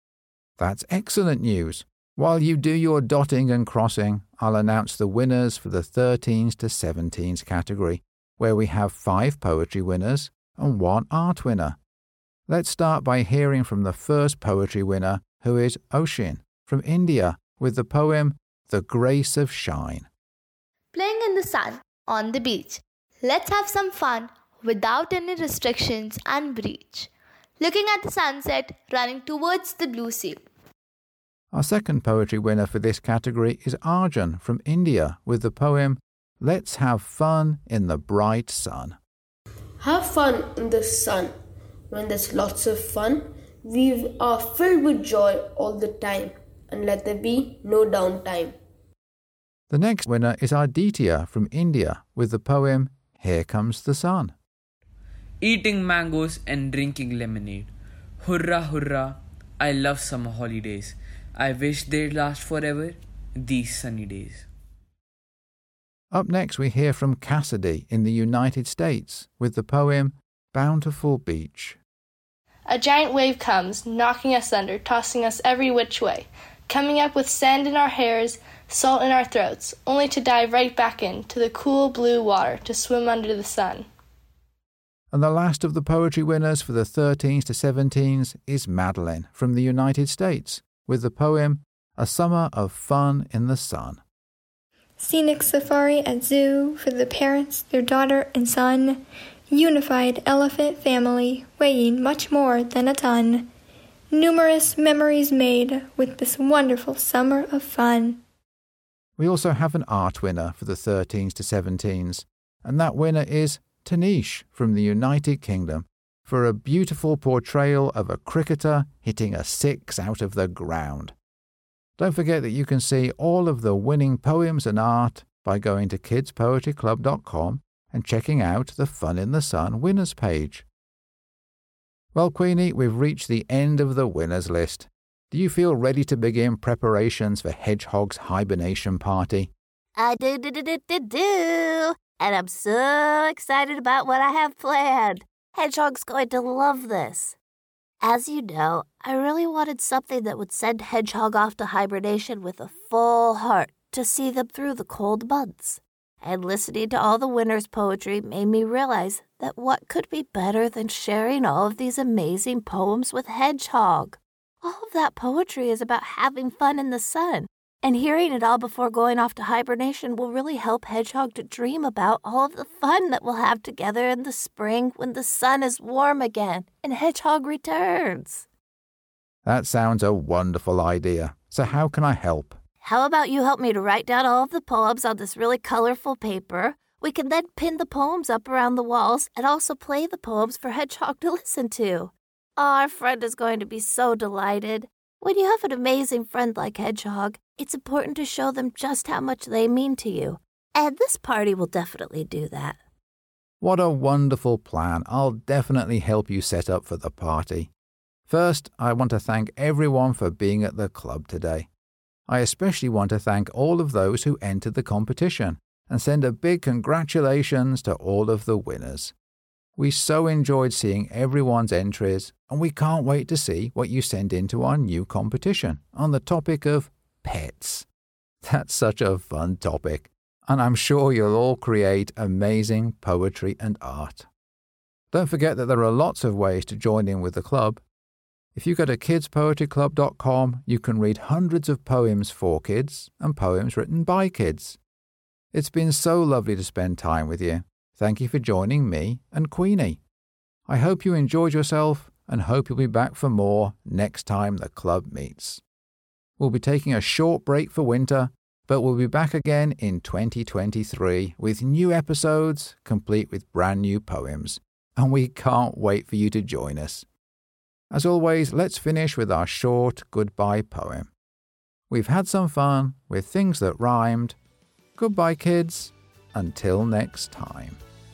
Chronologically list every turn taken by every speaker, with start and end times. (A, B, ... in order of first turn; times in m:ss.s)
0:00.6-0:11.8 A
0:12.5-0:20.1 A
0:20.9-0:30.4 B
0:31.5-0:39.0 A
0:39.8-0:41.3 C
0:41.9-0:48.6 C
0:49.7-0:54.4 A
0:55.4-0:57.7 D
0:58.2-1:04.5 D
1:06.1-1:11.8 A
1:12.7-1:23.9 E
1:25.1-1:34.0 A
1:35.0-1:43.5 F
1:44.1-1:48.2 F
1:49.2-2:01.2 A
2:02.0-2:10.6 A
2:12.1-2:19.5 A
2:20.0-2:27.4 G
2:28.0-2:58.4 G
2:59.5-3:02.6 A
3:02.8-3:22.8 G
3:23.6-3:27.7 A
3:28.3-3:31.7 A
3:32.3-3:39.1 A
3:39.8-3:47.9 A
3:48.4-3:54.3 A
3:55.1-3:57.8 A
3:58.6-4:04.8 A
4:05.5-4:10.0 A
4:10.7-4:15.6 A
4:16.4-4:27.1 A
4:27.9-4:31.1 A
4:31.9-4:34.4 A
4:35.0-4:37.8 A